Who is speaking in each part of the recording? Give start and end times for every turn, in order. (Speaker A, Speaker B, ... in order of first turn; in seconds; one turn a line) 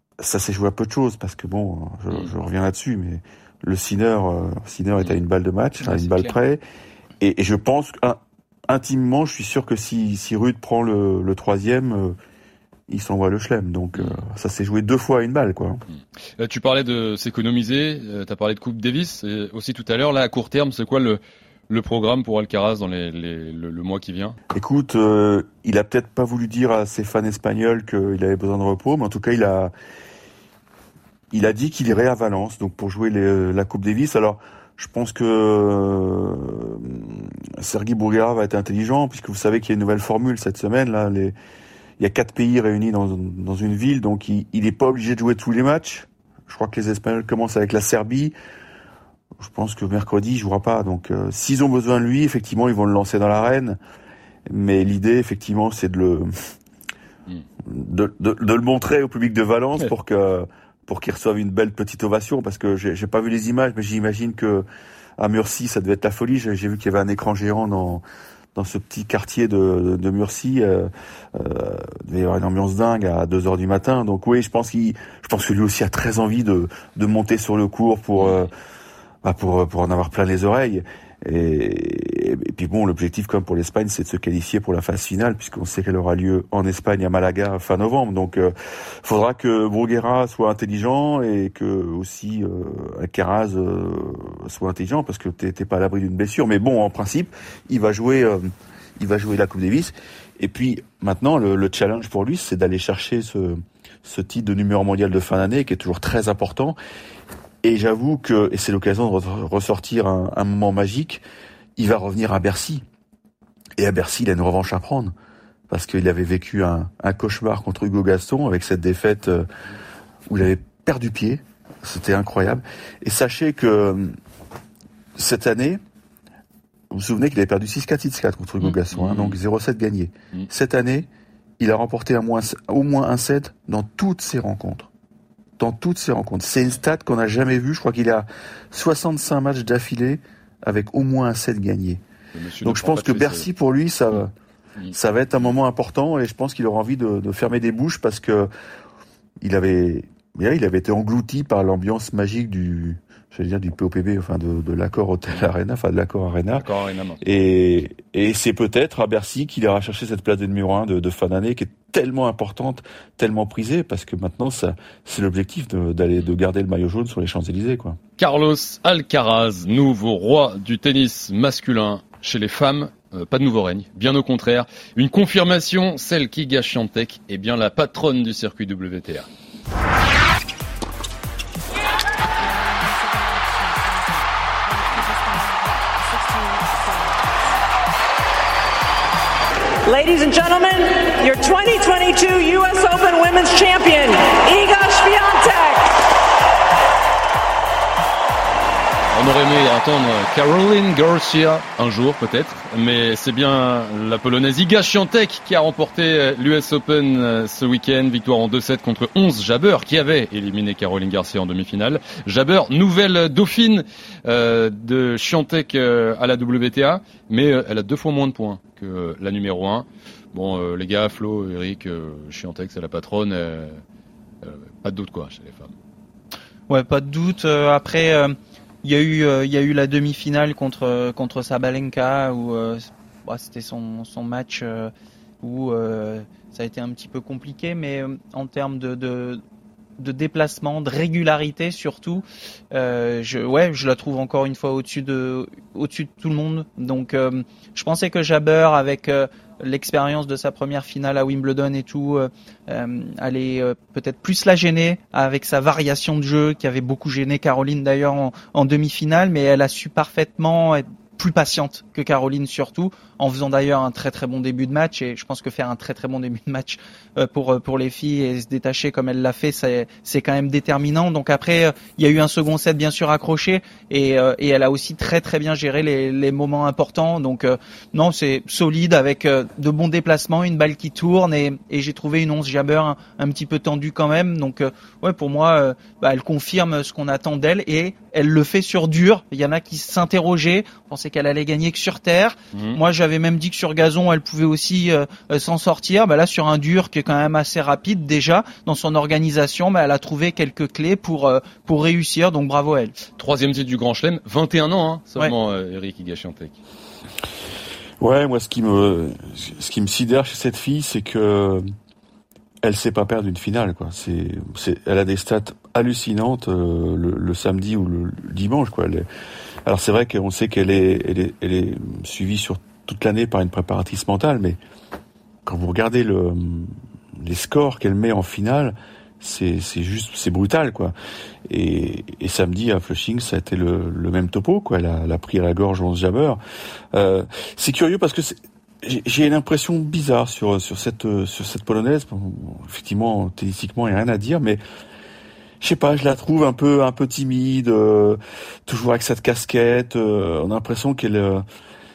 Speaker A: 0.2-6.6
Speaker B: 5.8-6.4
Speaker A: 7.2-12.2
Speaker A: 12.9-15.8
Speaker C: 13.9-14.2
Speaker C: 16.4-24.4
Speaker A: 24.5-29.7
Speaker A: 31.3-41.4
Speaker A: 42.0-48.4
Speaker A: 49.4-53.8
Speaker A: 54.5-56.3
Speaker A: 57.6-64.7
Speaker A: 65.2-68.0
Speaker A: 68.5-78.5
Speaker C: 78.2-78.5
Speaker A: 79.2-88.5
Speaker A: 89.0-106.8
Speaker A: 107.6-111.2
Speaker A: 111.8-112.8
Speaker A: 113.8-115.1
Speaker A: 115.7-119.5
Speaker A: 120.3-124.2
Speaker A: 125.2-125.8
Speaker A: 126.9-131.1
Speaker C: 128.7-129.4
Speaker A: 131.6-134.9
Speaker A: 135.6-142.0
Speaker C: 142.3-143.5
Speaker A: 142.6-144.3
Speaker C: 144.8-145.5
Speaker A: 144.9-148.5
Speaker A: 149.4-156.7
Speaker C: 156.6-157.2
Speaker A: 157.2-168.0
Speaker C: 168.2-179.3
Speaker D: 189.8-196.0
Speaker C: 199.1-223.8
Speaker C: 224.4-225.7
Speaker B: 226.7-239.4
Speaker B: 240.0-302.9
Speaker C: 303.2-306.6
Speaker A: 308.0-311.6
Speaker A: 312.6-319.1
Speaker A: 319.6-324.6
Speaker A: 325.4-330.9
Speaker A: 331.5-336.4
Speaker A: 336.9-344.6
Speaker A: 345.6-351.4